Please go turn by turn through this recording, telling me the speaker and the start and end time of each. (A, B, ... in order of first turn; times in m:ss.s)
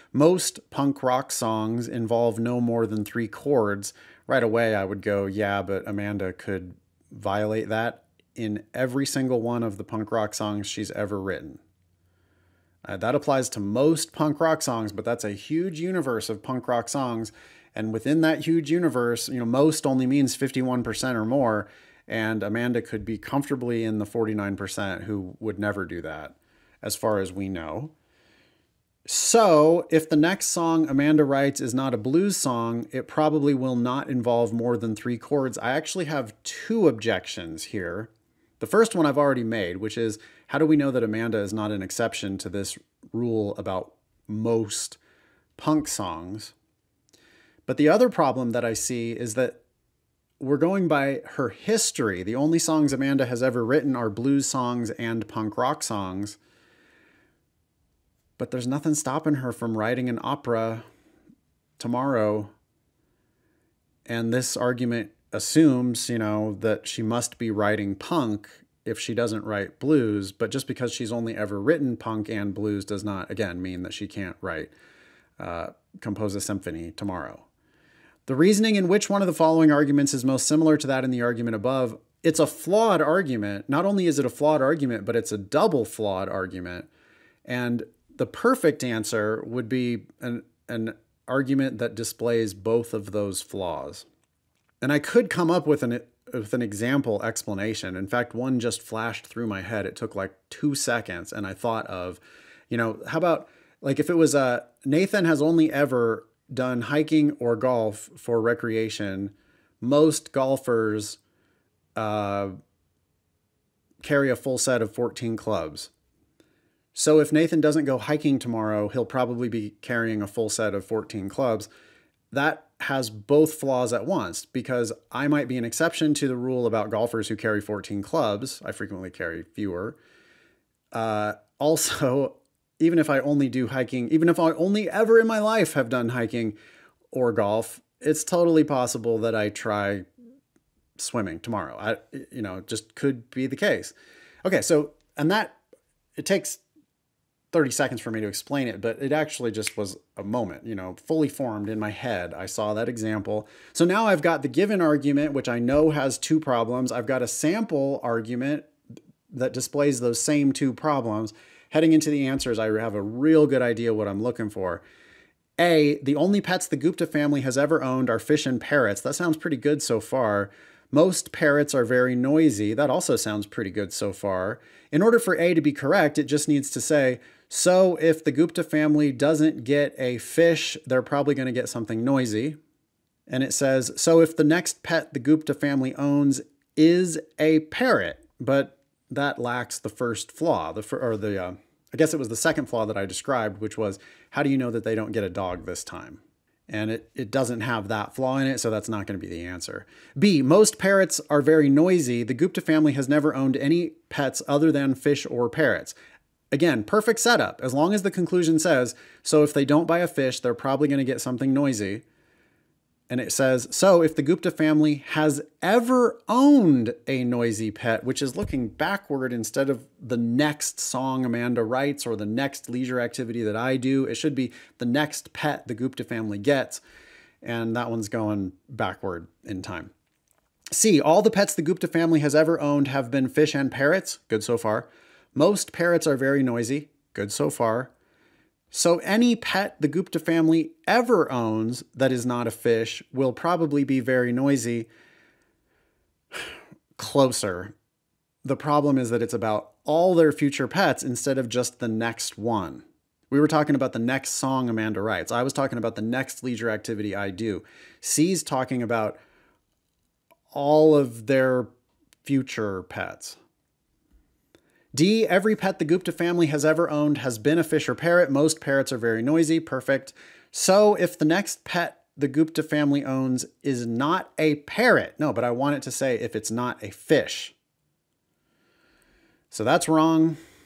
0:00.1-0:11.6 A
0:12.8-0:27.9 A
0:29.0-0:45.0 A
0:45.6-0:46.5 A
0:47.6-0:49.6 A
0:50.4-0:56.4 A
0:58.4-1:00.8 A
1:01.8-1:02.5 A
1:04.1-1:14.7 A
1:15.4-1:17.5 A
1:18.2-1:26.9 A
1:27.4-1:34.1 A
1:34.8-1:51.2 A
1:52.0-1:52.6 A
1:54.0-1:55.9 A
1:56.9-2:01.7 A
2:02.3-2:10.0 A
2:10.9-2:16.6 A
2:17.1-2:20.0 A
2:21.0-2:23.9 A
2:24.4-2:25.6 A
2:26.2-2:26.6 A
2:27.5-2:38.7 A
2:39.3-2:44.8 A
2:45.6-3:02.6 A
3:03.3-3:26.0 A
3:26.5-3:32.0 A
3:33.1-3:46.8 A
3:47.4-3:49.9 A
3:50.7-3:57.9 A
3:58.7-4:04.9 A
4:06.3-4:07.7 A
4:08.4-4:19.2 A
4:20.5-4:21.7 A
4:22.2-4:23.4 A
4:24.9-4:37.5 A
4:39.5-4:40.4 A